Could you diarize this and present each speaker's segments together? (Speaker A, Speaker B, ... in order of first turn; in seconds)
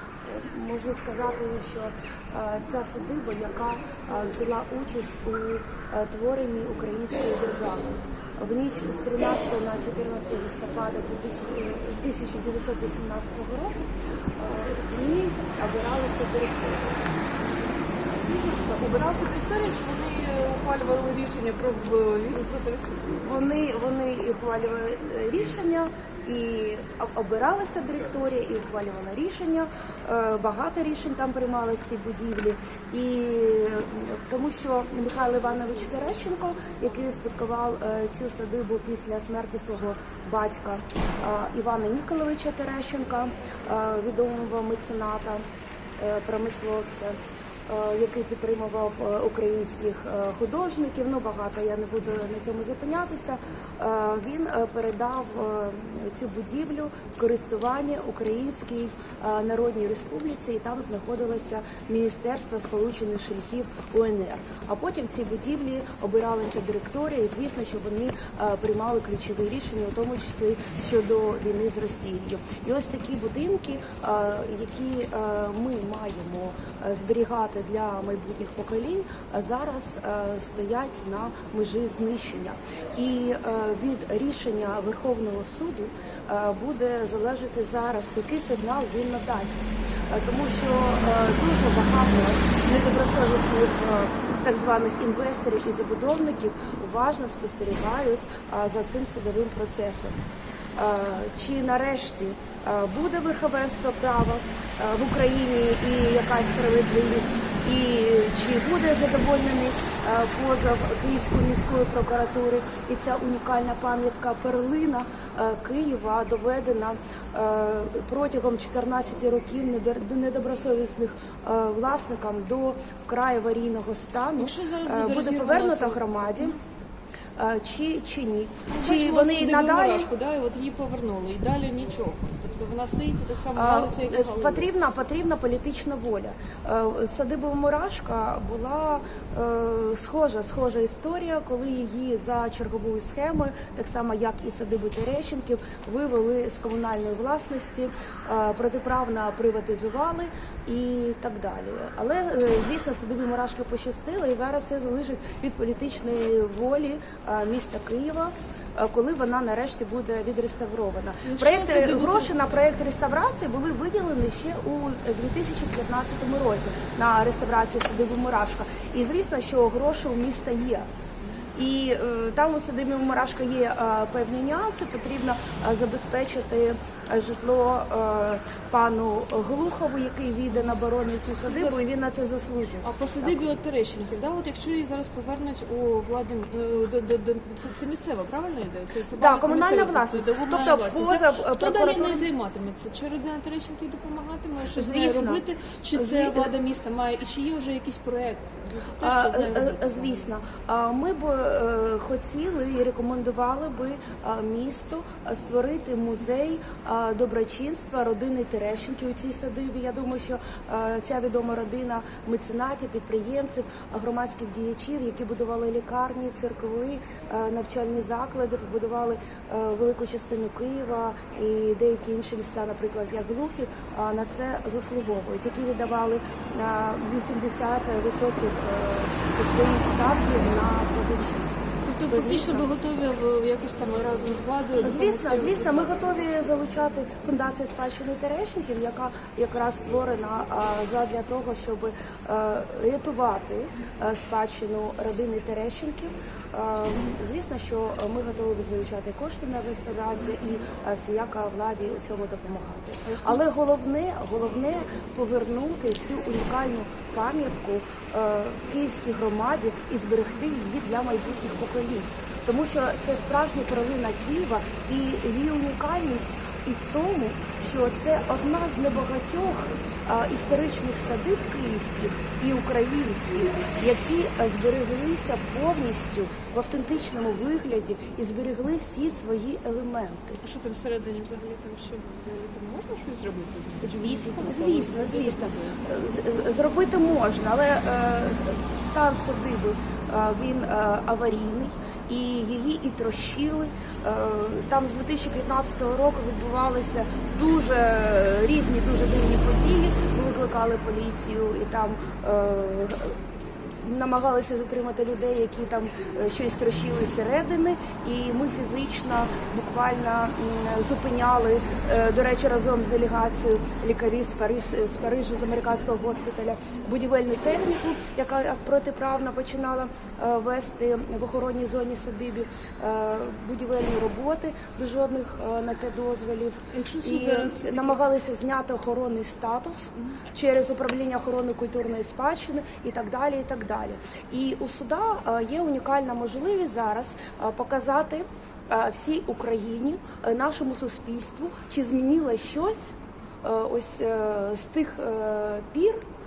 Speaker A: 0.2-16.9, 23.2-45.5, 46.0-100.2, 100.8-126.6, 127.4-130.1, 133.6-170.9, 171.6-183.4, 189.2-192.3, 194.8-195.4, 195.9-196.5, 199.0-232.7, 234.8-280.4, 283.8-303.2, 303.8-346.0
Speaker B: 18.1-23.2, 124.4-126.6, 128.7-134.7, 161.2-162.6, 181.5-181.8, 182.8-200.3, 231.8-236.3, 253.1-253.4, 280.4-285.8, 326.7-328.0